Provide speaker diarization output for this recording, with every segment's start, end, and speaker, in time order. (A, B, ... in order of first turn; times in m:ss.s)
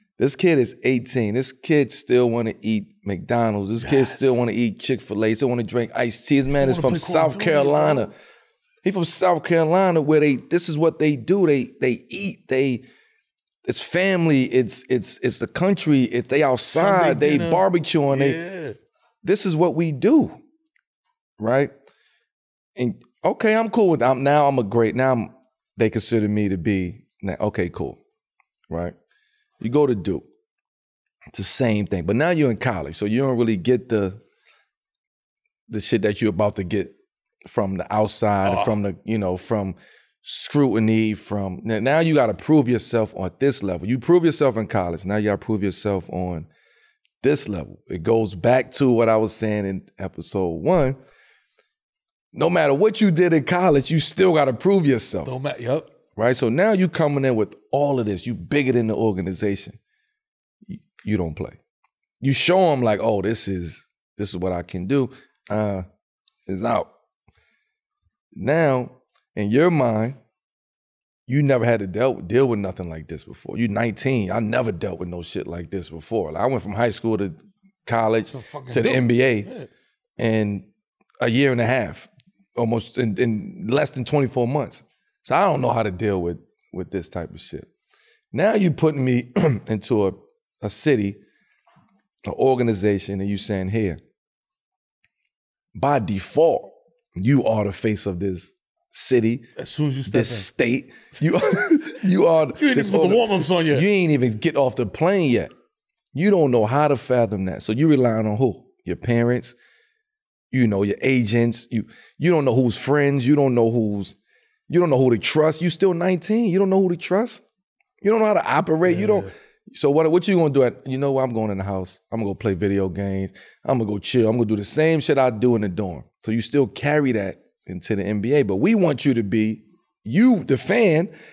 0:00.2-0:08.1 A
0:03.8-0:04.4 B
0:06.5-0:08.1 B
0:08.8-0:12.8 A
0:13.6-0:18.4 A
0:16.7-0:18.8 B
0:19.2-0:20.4 A
0:21.4-0:21.7 A
0:22.8-0:28.0 A
0:28.7-0:29.0 A
0:29.6-0:30.3 A
0:31.3-0:34.2 A
0:35.7-0:36.9 A
0:37.4-0:46.5 A
0:38.4-0:38.8 B
0:47.2-0:51.0 A
0:52.3-0:55.4 A
0:55.2-0:55.9 B
0:56.2-0:59.8 A
1:00.7-1:01.6 A
1:02.2-1:05.9 A
1:06.5-1:06.9 A
1:08.4-1:10.2 A
1:11.3-1:19.5 A
1:18.3-1:19.7 B
1:20.2-1:20.7 A
1:21.2-1:27.7 A
1:28.3-1:31.2 A
1:32.3-1:34.0 A
1:35.8-1:39.4 A
1:39.6-1:40.5 B
1:40.1-1:45.5 A
1:42.6-1:43.9 B
1:46.1-1:49.6 A
1:50.5-1:54.2 A
1:54.7-1:57.4 A
1:58.0-2:11.1 A
1:58.8-1:59.3 B